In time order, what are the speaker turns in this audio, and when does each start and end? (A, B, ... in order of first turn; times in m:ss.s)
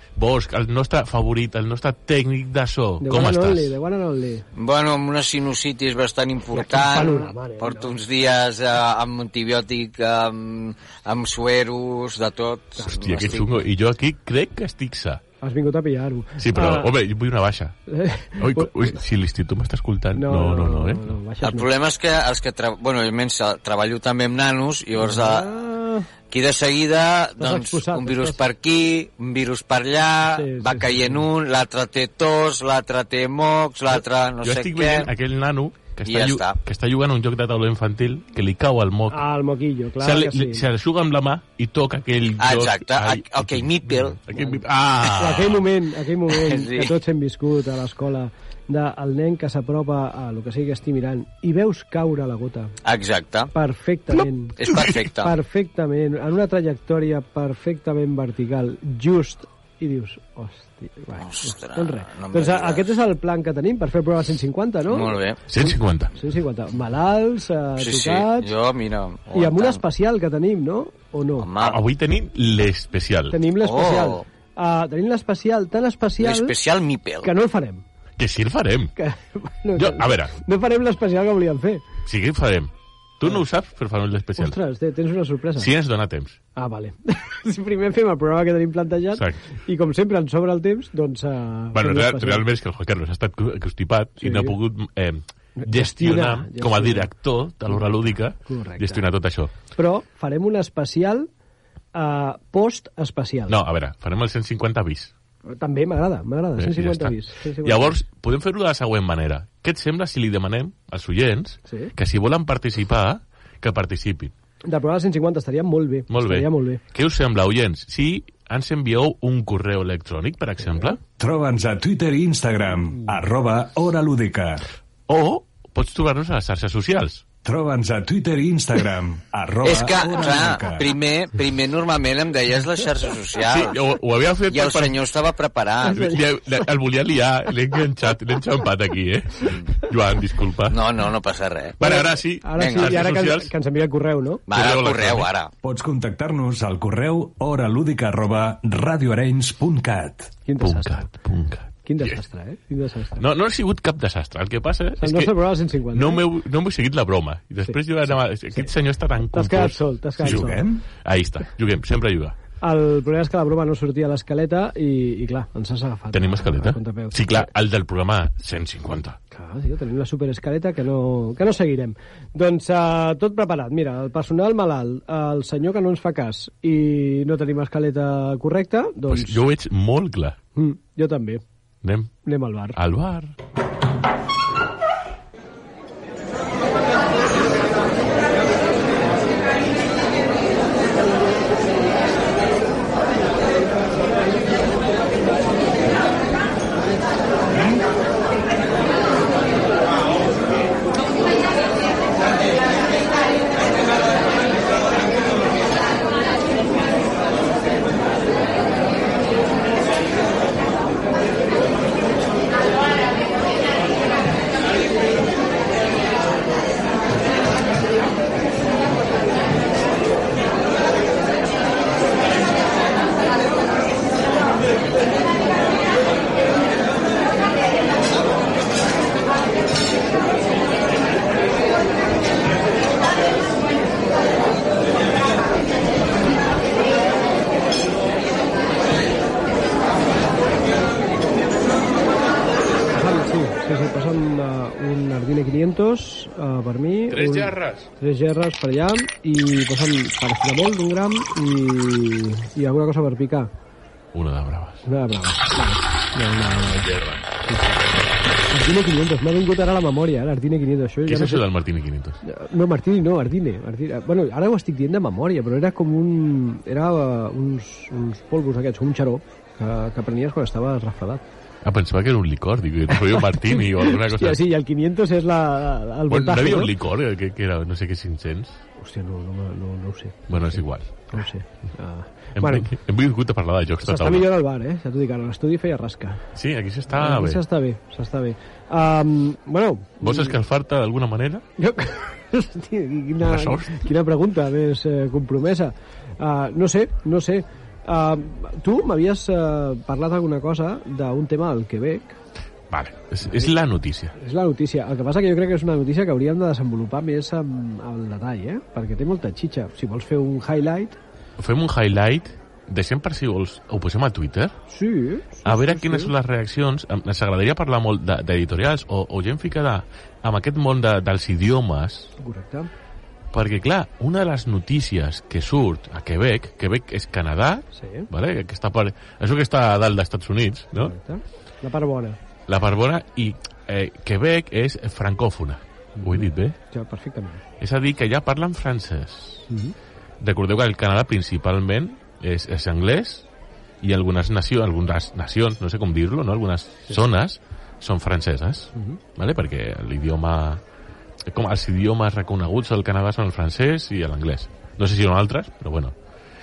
0:00.2-0:03.8 A
0:03.0-0:04.4 B
0:04.6-0:13.5 C
0:06.5-0:08.0 B
0:12.8-0:13.6 B
0:12.9-0:15.2 A
0:15.4-0:16.9 B
0:16.4-0:17.8 A
0:17.9-0:19.0 B
0:18.4-0:21.2 A
0:20.1-0:21.7 B
0:21.4-0:25.5 C
0:25.0-0:26.1 B
0:26.3-0:35.1 C
0:27.4-0:28.4 B
0:30.3-0:31.3 B
0:34.4-0:39.3 A
0:36.0-0:36.6 C
0:39.1-0:40.6 B
0:40.0-0:45.7 A
0:42.4-0:44.2 C
0:44.3-0:52.8 B
0:46.3-0:47.0 C
0:52.8-0:53.5 C
0:53.5-1:08.5 B
0:54.6-0:55.4 C
0:54.6-0:55.1 A
1:01.2-1:02.9 C
1:04.9-1:05.4 C
1:05.5-1:06.1 A
1:07.8-1:09.8 C
1:09.3-1:11.5 B
1:11.4-1:11.8 C
1:11.6-1:13.4 A
1:13.3-1:16.6 B
1:13.6-1:14.2 C
1:16.2-1:17.3 C
1:17.2-1:17.8 B
1:18.2-1:18.9 A
1:19.0-1:21.8 B
1:19.8-1:20.3 A
1:22.0-1:24.6 A
1:24.4-1:25.7 B
1:25.6-1:26.4 A
1:26.6-1:32.4 B
1:29.1-1:29.4 A
1:31.7-1:39.5 A
1:34.2-1:34.6 B
1:35.6-1:37.1 B
1:37.8-1:39.0 B
1:39.8-1:41.3 B
1:41.9-1:43.6 B
1:43.5-1:45.1 A
1:45.5-1:48.0 B
1:46.6-1:54.3 A
1:51.7-1:51.9 B
1:54.6-1:56.8 B
1:56.1-2:01.0 A
2:01.2-2:04.7 D
2:05.1-2:07.2 A
2:07.4-2:10.9 D
2:09.6-2:13.8 C
2:13.4-2:15.0 A
2:14.5-2:16.1 C
2:15.9-2:16.2 B
2:15.9-2:20.9 A
2:19.4-2:19.7 C
2:20.7-2:23.1 C
2:21.8-2:23.5 A
2:21.8-2:24.4 B
2:24.5-2:25.5 C
2:24.5-2:25.3 A
2:25.6-2:30.3 D
2:30.4-2:31.1 B
2:30.6-2:32.2 A
2:31.8-2:33.2 B
2:33.2-2:42.4 A
2:35.0-2:36.3 B
2:39.3-2:40.7 B
2:40.2-2:40.8 D
2:42.6-2:47.5 B
2:46.1-2:49.2 A
2:49.3-2:59.4 B
2:59.1-3:00.4 A
3:00.6-3:01.4 B
3:01.8-3:02.1 A
3:02.2-3:02.8 B
3:02.8-3:03.3 A
4:02.9-4:13.5 B
4:07.1-4:07.9 A
4:14.1-4:14.9 A
4:14.8-4:16.9 B
4:16.8-4:17.3 A
4:17.4-4:17.9 B
4:18.4-4:21.4 B
4:21.1-4:22.2 A
4:22.2-4:31.2 B
4:31.6-4:34.4 A
4:33.0-4:36.8 B
4:36.1-4:38.6 A
4:38.8-4:42.7 B
4:40.3-4:41.2 A
4:42.4-4:44.3 A
4:43.8-4:46.3 B
4:46.4-4:47.4 A
4:46.9-4:50.4 B
4:50.0-4:51.4 A
4:51.6-5:02.2 B
4:53.2-4:53.9 A
5:02.7-5:04.2 A
5:04.1-5:11.0 B
5:11.4-5:14.6 A
5:14.7-5:16.1 B
5:15.4-5:22.1 A
5:22.2-5:22.7 B
5:23.3-5:30.9 A
5:27.7-5:28.1 B
5:30.8-5:32.2 B
5:32.5-5:36.6 A
5:36.0-5:37.4 B
5:37.6-5:39.5 A
5:39.5-5:39.8 B
5:40.2-5:43.2 A
5:43.8-5:50.6 A
5:48.8-5:49.0 B
5:51.3-5:56.0 A